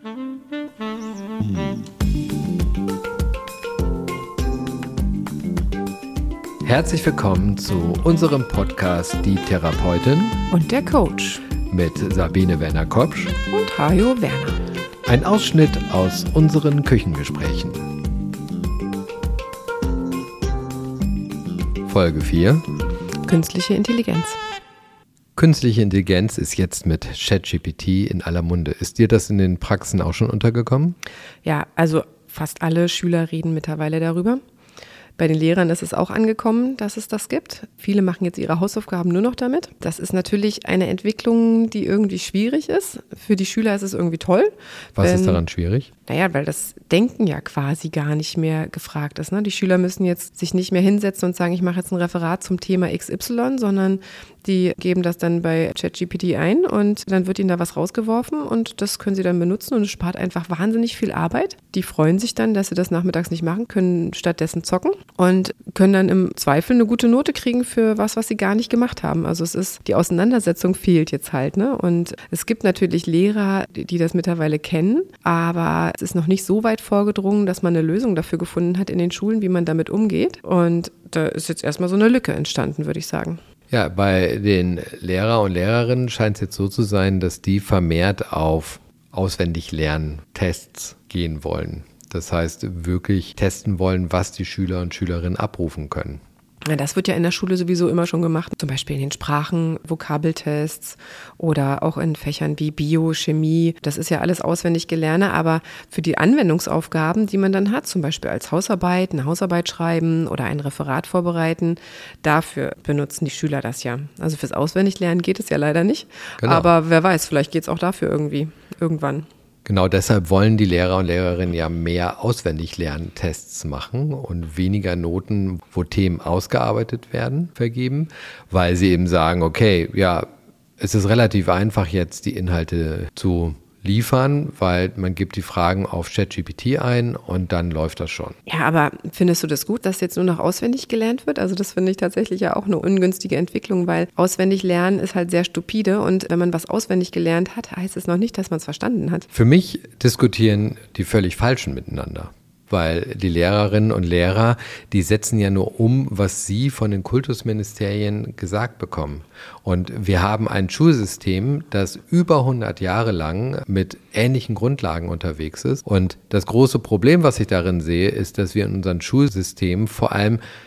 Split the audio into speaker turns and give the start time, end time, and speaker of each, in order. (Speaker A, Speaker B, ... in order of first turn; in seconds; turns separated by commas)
Speaker A: 1.4-1.8, Speaker A: 6.6-10.4, Speaker B: 10.5-11.4, Speaker A: 11.7-13.3, Speaker B: 13.5-14.6, Speaker A: 15.1-17.9, Speaker A: 21.9-22.6, Speaker B: 23.2-24.4, Speaker A: 25.4-31.0, Speaker B: 31.4-34.4, Speaker B: 35.2-45.4, Speaker A: 45.0-45.9, Speaker B: 46.0-83.4, Speaker A: 83.7-96.2, Speaker B: 96.7-119.3, Speaker A: 116.4-116.7, Speaker A: 119.7-130.3, Speaker A: 130.8-138.4, Speaker B: 138.5-149.3, Speaker A: 149.3-170.4